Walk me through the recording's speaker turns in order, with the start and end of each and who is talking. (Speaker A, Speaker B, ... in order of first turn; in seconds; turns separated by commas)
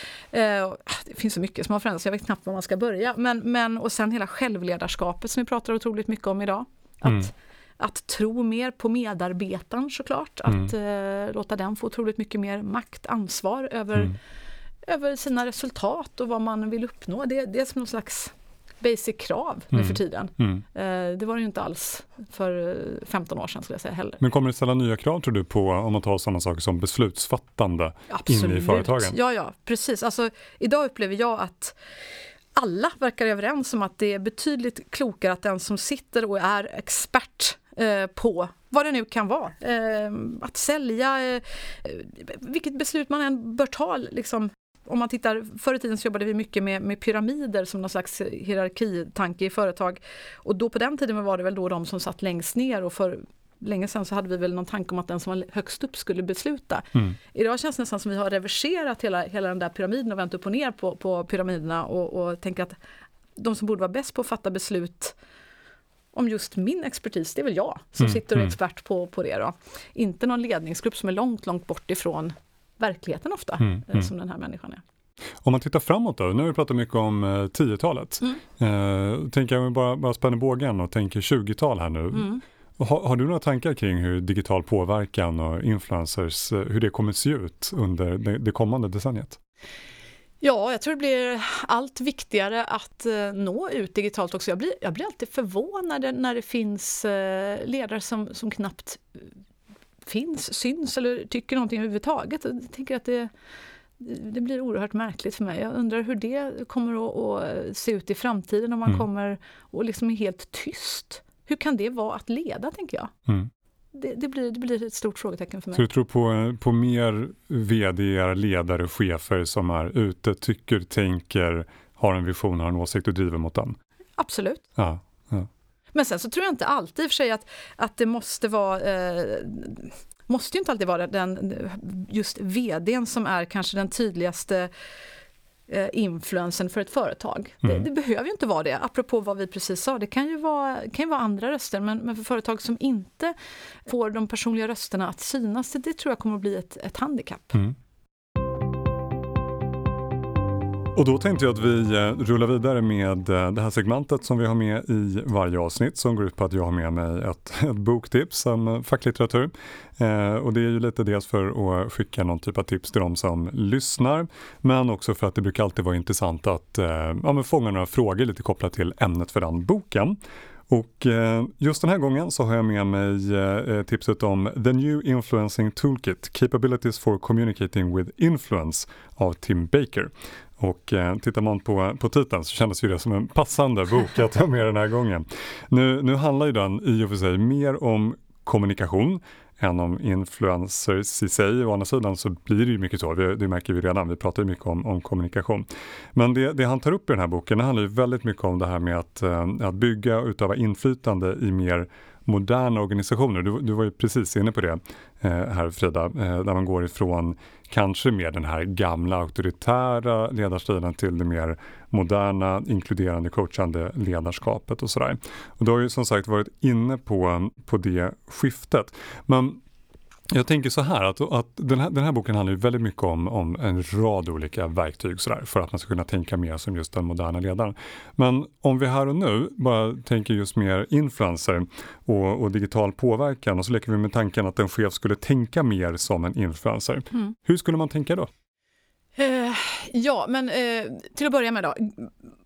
Speaker A: 0.3-14.2, Speaker A: 14.8-24.2, Speaker B: 19.7-20.6, Speaker B: 24.2-29.1, Speaker A: 28.1-31.8, Speaker A: 32.5-62.8, Speaker A: 63.4-65.2, Speaker A: 66.1-74.8, Speaker B: 68.0-68.5, Speaker B: 73.6-74.1, Speaker B: 75.4-89.4, Speaker A: 90.4-99.0, Speaker A: 100.0-103.3, Speaker A: 104.0-113.1, Speaker A: 113.9-115.8, Speaker B: 115.7-123.8, Speaker A: 124.2-124.7, Speaker B: 124.8-125.5, Speaker A: 125.9-134.7, Speaker A: 135.7-143.3, Speaker A: 143.8-147.6, Speaker B: 150.9-170.2, Speaker B: 170.7-219.6, Speaker B: 220.3-238.3, Speaker A: 239.2-242.1